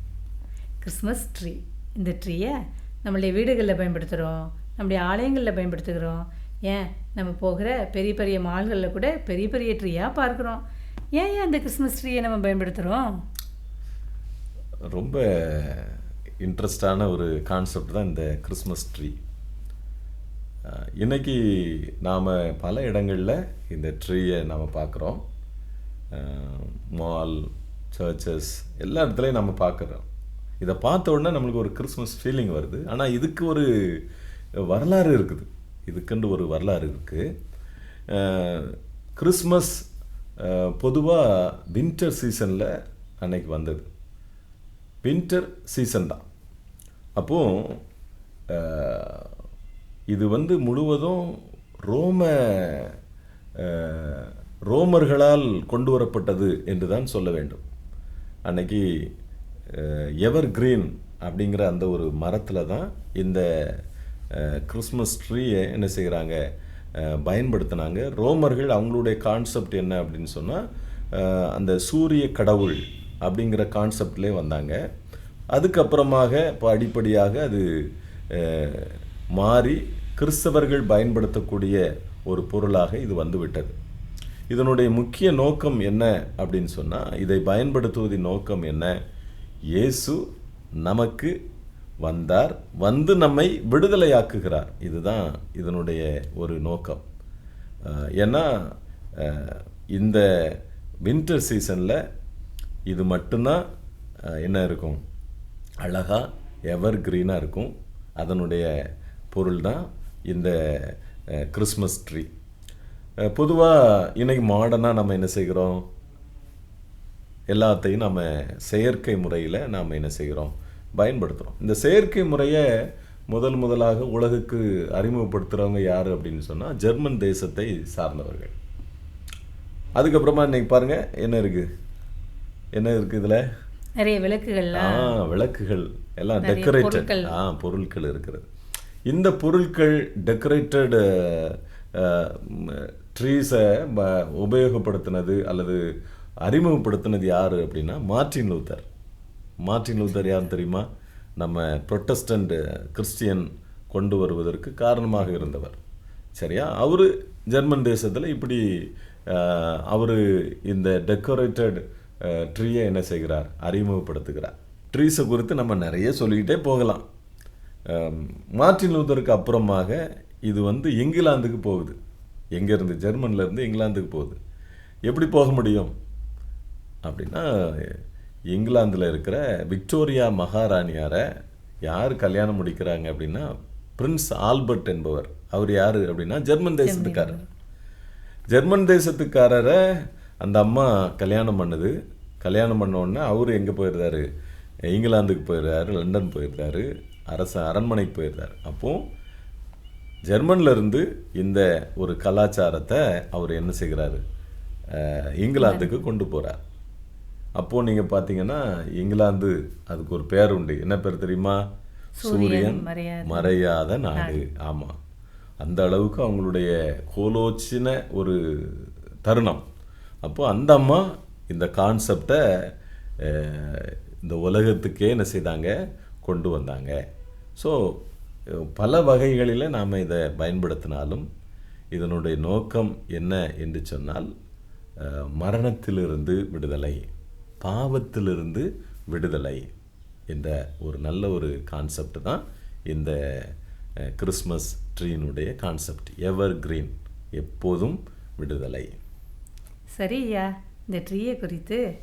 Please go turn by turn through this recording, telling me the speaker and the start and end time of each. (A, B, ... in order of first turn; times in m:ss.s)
0:00.8-0:02.5 A
0:03.0-0:10.6 A
0:11.2-0:13.0 A
0:14.9-0:19.2 B
0:20.6-0:25.2 B
0:26.1-0:30.0 B
0:30.6-0:34.0 B
0:34.7-0:37.2 B
0:38.1-0:39.8 B
0:40.4-0:43.9 B
0:45.0-0:46.2 B
0:47.2-0:47.8 B
0:48.5-0:49.3 B
0:50.1-0:52.9 B
0:53.6-0:57.6 B
0:58.4-0:59.0 B
0:59.7-1:03.8 B
1:04.3-1:06.4 B
1:07.0-1:10.6 B
1:11.1-1:14.8 B
1:15.5-1:17.6 B
1:18.3-1:23.7 B
1:24.5-1:28.9 B
1:29.7-1:30.2 B
1:30.8-1:31.3 B
1:32.0-1:37.0 B
1:37.8-1:42.0 B
1:42.9-1:43.6 B
1:44.2-1:45.0 B
1:45.8-1:48.7 B
1:49.3-1:52.3 B
1:53.2-1:55.9 B
1:57.5-2:02.7 B
2:03.3-2:08.5 B
2:10.0-2:11.6 B
2:12.7-2:13.4 B
2:14.0-2:15.1 A
2:14.7-2:18.5 B
2:16.4-2:17.3 A
2:19.1-2:25.8 B
2:26.4-2:28.8 B
2:29.6-2:30.8 B
2:31.4-2:35.8 B
2:36.4-2:38.6 B
2:39.3-2:47.0 B
2:47.9-2:52.0 B
2:52.5-2:54.4 B
2:55.1-2:55.9 B
2:57.0-2:58.0 B
2:58.5-3:01.2 B
3:01.8-3:07.4 B
3:06.8-3:07.4 A
3:08.5-3:09.8 B
3:10.4-3:14.2 B
3:14.9-3:19.0 B
3:20.3-3:24.2 B
3:24.9-3:26.6 B
3:25.6-3:26.0 A
3:27.6-3:31.6 B
3:32.2-3:33.5 A
3:32.2-3:35.0 B
3:34.1-3:34.4 A
3:35.6-3:39.6 B
3:40.2-3:42.4 B
3:43.2-3:47.0 B
3:47.6-3:51.2 B
3:51.9-3:54.3 B
3:55.0-3:57.1 B
3:57.6-3:59.7 B
4:00.3-4:03.5 B
4:04.1-4:09.0 B
4:10.0-4:11.8 A